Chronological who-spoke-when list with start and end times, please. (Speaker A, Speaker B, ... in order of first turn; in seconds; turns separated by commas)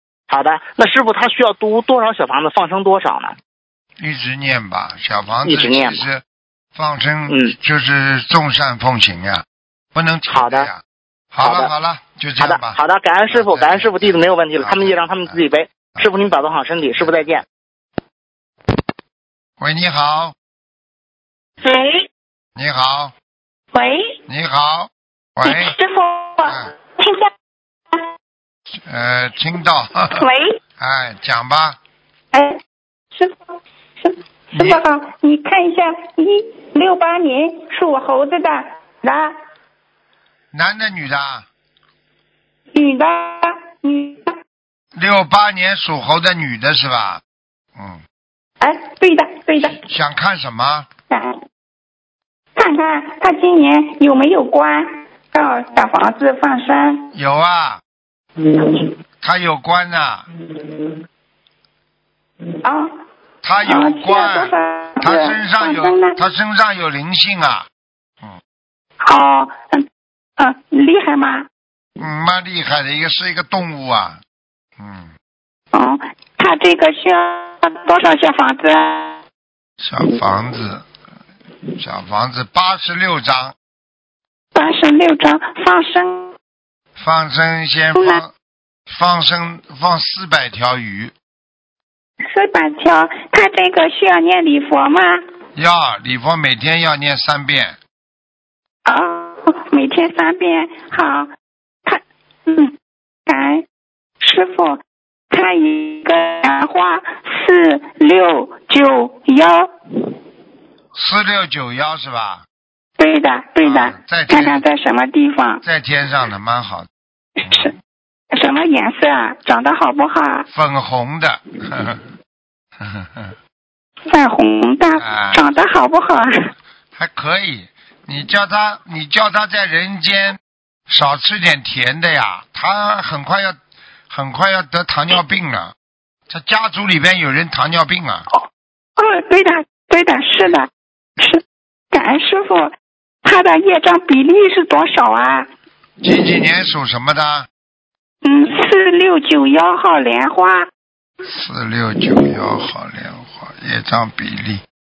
Speaker A: 0.3-3.4, Speaker B: 4.0-6.2, Speaker A: 5.5-6.0, Speaker B: 6.7-10.8, Speaker A: 7.3-7.5, Speaker A: 10.3-10.7, Speaker B: 11.3-12.8, Speaker A: 11.4-11.7, Speaker A: 12.4-17.4, Speaker B: 13.3-15.4, Speaker B: 19.6-20.4, Speaker C: 21.6-22.1, Speaker B: 22.6-23.1, Speaker C: 23.7-24.2, Speaker B: 24.3-25.8, Speaker C: 25.4-27.3, Speaker B: 26.4-26.7, Speaker B: 28.8-31.8, Speaker C: 30.2-30.6, Speaker C: 32.3-32.6, Speaker C: 33.1-33.4, Speaker C: 34.0-39.4, Speaker B: 34.5-34.8, Speaker B: 40.5-41.5, Speaker C: 42.7-44.4, Speaker B: 45.0-47.2, Speaker B: 47.8-48.0, Speaker C: 48.6-49.8, Speaker B: 49.8-50.9, Speaker C: 51.1-51.4, Speaker C: 52.6-57.1, Speaker B: 57.1-57.8, Speaker B: 59.2-60.3, Speaker C: 62.6-62.9, Speaker B: 63.4-67.7, Speaker C: 63.6-66.2, Speaker C: 69.0-69.8, Speaker C: 70.4-71.5, Speaker B: 72.0-74.2, Speaker B: 74.8-75.1, Speaker C: 75.7-79.2, Speaker B: 79.8-80.9, Speaker B: 81.8-83.5, Speaker C: 84.5-86.3, Speaker B: 87.0-88.3, Speaker C: 88.0-88.2, Speaker B: 88.9-91.1, Speaker C: 92.2-95.2, Speaker B: 95.5-97.8, Speaker C: 98.8-101.3, Speaker C: 101.8-102.7, Speaker C: 103.3-103.6, Speaker C: 104.2-110.2, Speaker B: 110.9-112.5, Speaker C: 113.0-115.6, Speaker B: 113.6-114.7, Speaker B: 115.6-116.9, Speaker C: 117.4-117.7, Speaker B: 117.5-117.7, Speaker C: 118.3-120.5, Speaker B: 120.5-122.0, Speaker B: 122.8-123.3, Speaker C: 124.1-126.5, Speaker B: 125.0-125.4, Speaker B: 126.9-133.6, Speaker B: 134.1-135.7, Speaker B: 136.3-138.3, Speaker C: 139.0-142.7, Speaker C: 143.2-145.5, Speaker B: 146.0-147.5, Speaker C: 148.2-150.7, Speaker B: 151.2-154.6